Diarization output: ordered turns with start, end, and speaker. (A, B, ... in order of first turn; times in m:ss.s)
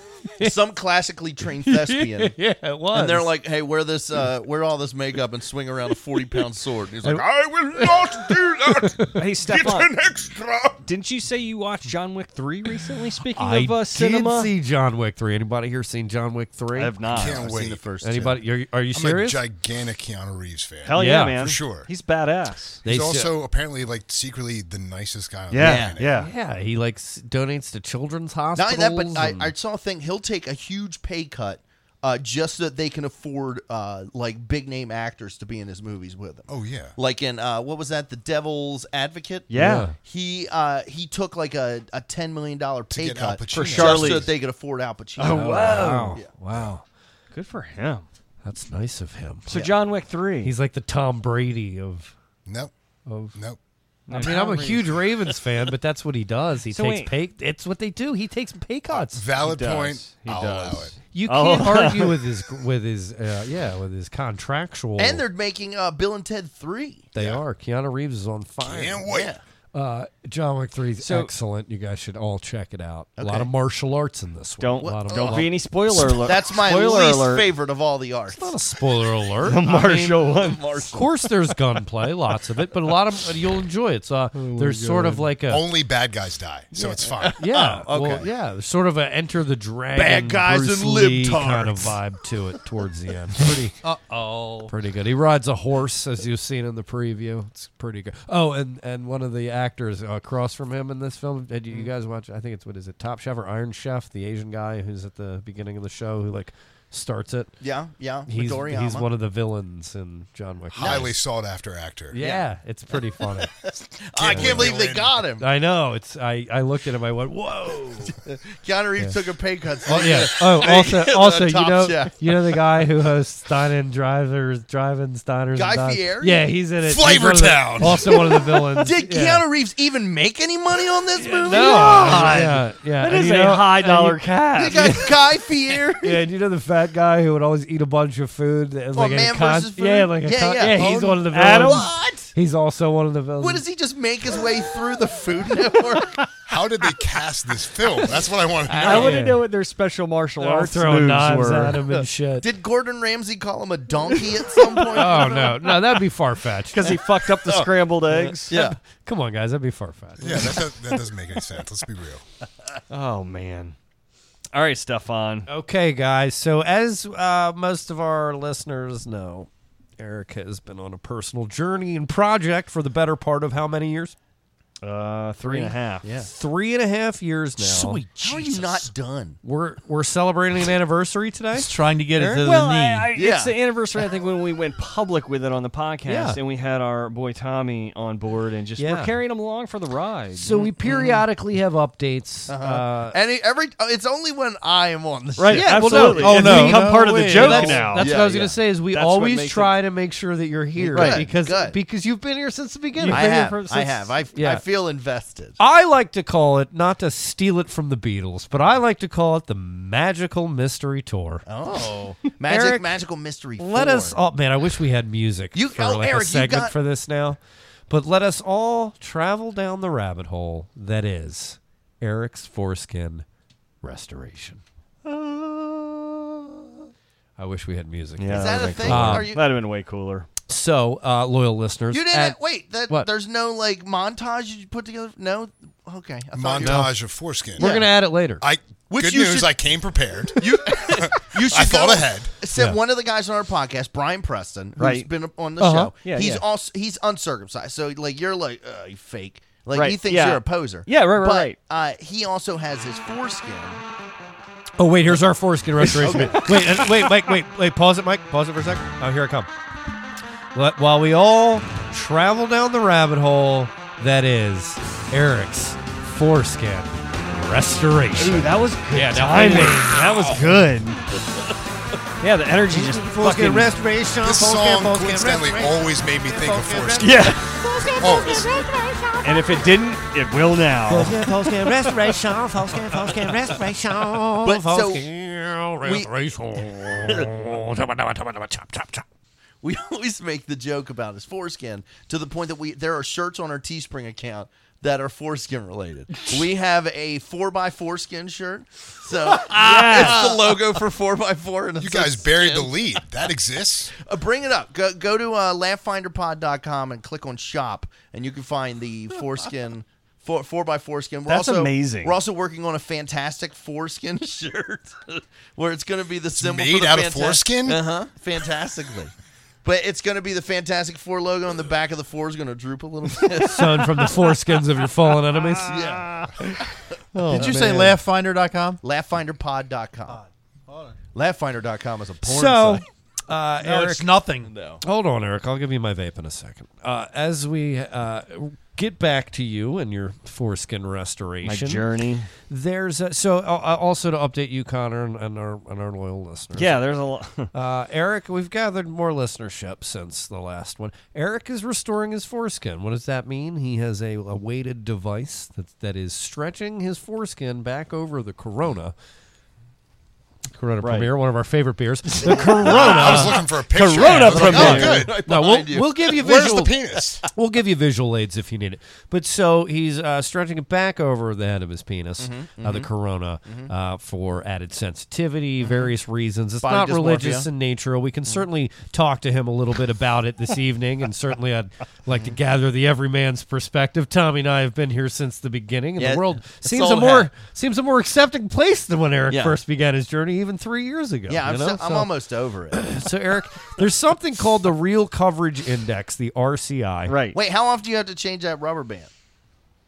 0:00.4-0:02.4 A
0:01.6-0:03.3 B
0:02.9-0:07.3 A
0:07.0-0:09.2 B
0:07.3-0:09.0 C
0:09.2-0:10.0 D
0:09.5-0:10.8 C
0:10.8-0:14.5 D
0:13.4-0:17.0 B
0:16.8-0:17.4 D
0:17.1-0:17.8 C
0:17.1-0:18.4 A
0:18.0-0:19.4 B
0:18.9-0:21.9 C
0:20.8-0:22.8 D
0:21.0-0:21.4 B
0:22.8-0:23.3 B
0:22.8-0:26.1 C
0:25.5-0:26.3 D
0:25.6-0:26.0 A
0:26.2-0:29.5 B
0:28.6-0:46.3 A
0:36.5-0:37.0 C
0:39.5-0:39.9 D
0:39.5-0:40.0 B
0:42.9-0:44.3 C
0:43.5-0:44.3 D
0:45.2-0:46.2 D
0:45.2-0:46.8 B
0:47.3-0:48.1 D
0:48.4-0:49.6 B
0:49.5-0:50.5 D
0:50.4-0:52.1 B
0:52.5-0:52.7 C
0:53.1-0:53.4 B
0:53.3-0:53.6 C
0:54.1-0:54.8 D
0:54.1-0:59.2 B
0:54.2-0:54.8 A
0:56.7-0:57.1 D
0:58.9-1:00.9 C
0:59.4-1:02.2 D
1:01.1-1:05.2 B
1:05.0-1:07.1 A
1:07.1-1:09.1 B
1:07.2-1:07.4 C
1:08.6-1:09.3 C
1:09.1-1:09.4 A
1:09.7-1:15.5 B
1:11.0-1:11.3 D
1:13.2-1:13.5 A
1:14.6-1:17.5 D
1:14.8-1:18.5 A
1:18.3-1:20.2 B
1:19.4-1:20.6 D
1:20.0-1:21.1 A
1:20.9-1:25.7 B
1:25.4-1:27.4 C
1:26.8-1:28.3 A
1:27.4-1:33.8 B
1:30.0-1:32.0 A
1:33.8-1:34.7 E
1:34.7-1:47.5 B
1:47.6-1:49.1 A
1:48.3-1:51.1 B
1:50.8-1:52.2 C
1:50.8-1:51.1 A
1:52.1-1:53.5 B
1:52.2-1:52.5 A
1:53.7-1:55.5 A
1:54.2-1:55.2 C
1:54.2-1:54.8 B
1:55.4-1:58.2 B
1:58.1-2:02.6 A
1:59.9-2:09.4 B
2:05.6-2:06.5 A
2:06.8-2:08.2 C
2:07.9-2:12.6 A
2:11.2-2:14.2 B
2:11.5-2:15.1 D
2:14.6-2:16.2 A
2:14.7-2:15.0 B
2:16.0-2:23.6 B
2:18.9-2:22.3 A
2:21.3-2:22.0 D
2:23.4-2:26.3 A
2:26.5-2:29.2 C
2:28.7-2:29.4 B
2:28.8-2:31.8 D
2:30.4-2:32.5 B
2:32.4-2:35.7 A
2:34.9-2:37.0 B
2:36.7-2:38.5 D
2:38.5-2:38.8 A
2:38.5-2:40.7 B
2:40.2-2:42.2 C
2:42.9-2:43.8 D
2:44.5-2:45.5 D
2:45.5-2:54.2 B
2:54.8-2:56.1 D
2:56.0-2:56.3 A
2:56.2-2:58.7 B
2:57.6-2:59.4 A
2:59.4-3:02.4 B
3:01.5-3:03.1 E
3:02.3-3:10.5 D
3:03.1-3:03.6 A
3:06.1-3:06.4 B
3:08.8-3:09.2 B
3:10.4-3:13.2 B
3:10.5-3:11.2 A
3:12.5-3:16.5 A
3:15.4-3:18.2 D
3:15.5-3:23.3 B
3:16.2-3:17.8 E
3:17.4-3:18.6 A
3:18.9-3:19.8 D
3:20.8-3:21.8 A
3:20.9-3:21.3 D
3:23.0-3:24.2 D
3:23.1-3:25.6 A
3:24.4-3:24.6 B
3:25.6-3:31.4 B
3:31.5-3:34.2 A
3:32.4-3:32.9 B
3:33.6-3:37.4 B
3:35.5-3:36.8 A
3:37.9-3:43.2 B
3:43.8-3:44.6 B
3:47.4-3:49.3 B
3:48.2-3:50.3 D
3:48.3-3:49.4 A
3:50.5-3:53.1 B
3:51.9-3:56.9 A
3:56.3-3:57.9 C
3:56.6-3:56.9 B
3:57.6-3:58.4 B
3:57.6-3:58.0 A
3:58.4-4:02.3 C
3:58.9-3:59.6 A
4:00.3-4:13.8 A
4:04.8-4:05.1 D
4:05.6-4:05.9 B
4:06.0-4:06.4 D
4:09.7-4:11.6 D
4:14.8-4:19.5 B
4:15.9-4:16.9 A
4:20.6-4:30.4 B
4:28.2-4:31.0 D
4:32.2-4:33.7 D
4:32.7-4:39.4 B
4:34.2-4:38.7 C
4:37.0-4:37.5 D
4:39.2-4:41.3 D
4:40.9-4:49.0 B
4:44.4-4:45.1 A
4:45.8-4:46.1 A
4:47.1-4:47.3 A
4:49.6-5:03.0 A
4:59.5-5:00.4 D
5:01.8-5:03.9 C
5:04.0-5:19.1 A
5:11.3-5:12.2 D
5:16.3-5:17.8 C
5:19.6-5:24.1 A
5:23.4-5:25.8 B
5:25.7-5:26.5 A
5:27.2-5:28.8 E
5:27.2-5:27.9 B
5:27.3-5:27.6 A
5:27.4-5:27.9 D
5:28.8-5:30.2 A
5:30.1-5:31.0 E
5:31.1-5:32.8 A
5:32.2-5:34.1 B
5:33.6-5:34.5 E
5:34.4-5:34.8 A
5:34.8-5:41.8 B
5:41.4-5:42.3 D
5:42.5-5:46.8 B
5:46.6-5:47.5 D
5:47.5-5:58.9 B
6:00.5-6:32.1 B
6:00.8-6:01.1 D
6:02.3-6:05.1 D
6:02.6-6:05.2 C
6:04.3-6:06.2 A
6:06.0-6:07.2 C
6:12.2-6:12.9 A
6:13.4-6:13.7 A
6:15.6-6:15.9 A
6:16.6-6:17.5 A
6:22.1-6:22.4 A
6:26.0-6:27.3 A
6:29.3-6:29.6 A
6:31.3-6:33.1 A
6:32.7-6:37.1 B
6:37.1-6:37.4 D
6:37.3-6:39.1 A